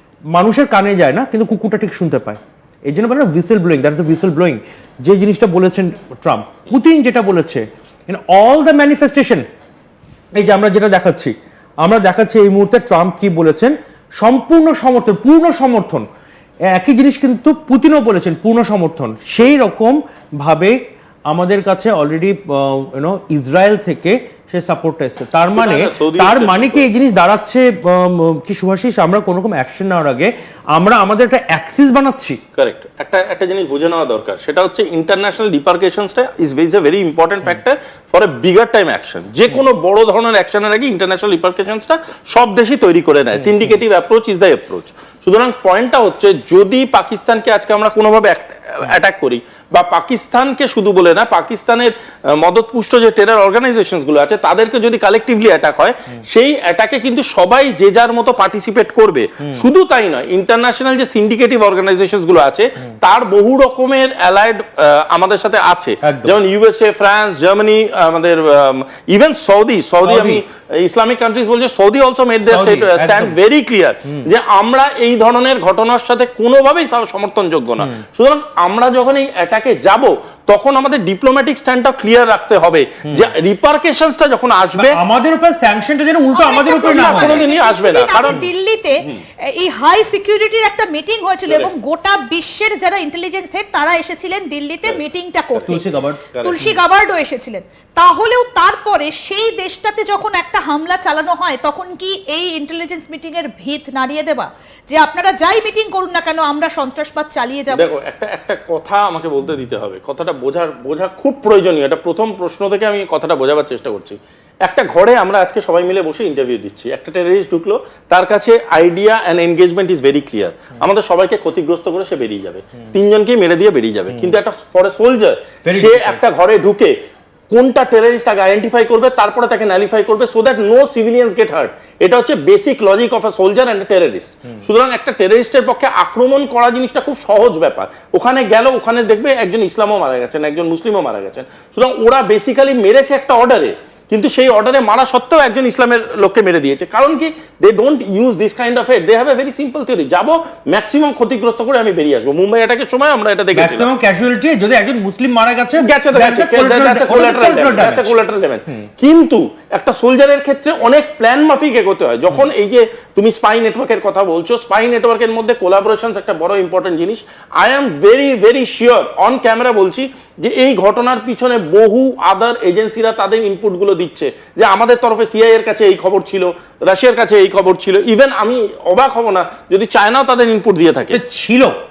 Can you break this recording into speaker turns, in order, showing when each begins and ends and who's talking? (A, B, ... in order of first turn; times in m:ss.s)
0:00.3-0:09.4 A
0:10.3-0:16.0 A
0:16.7-0:20.8 A
0:21.3-0:32.4 A
0:25.5-0:26.9 B
0:32.6-1:25.0 B
1:06.0-1:06.4 A
1:10.0-1:10.4 A
1:12.5-1:13.3 A
1:24.8-1:27.4 A
1:26.3-1:47.9 C
1:26.7-1:28.4 B
1:35.5-1:35.8 B
1:35.6-1:36.7 A
1:36.3-1:36.7 B
1:47.7-2:07.0 B
2:05.6-2:06.2 A
2:07.5-2:33.9 B
2:33.5-2:38.1 A
2:35.8-3:01.2 B
3:01.1-3:01.8 A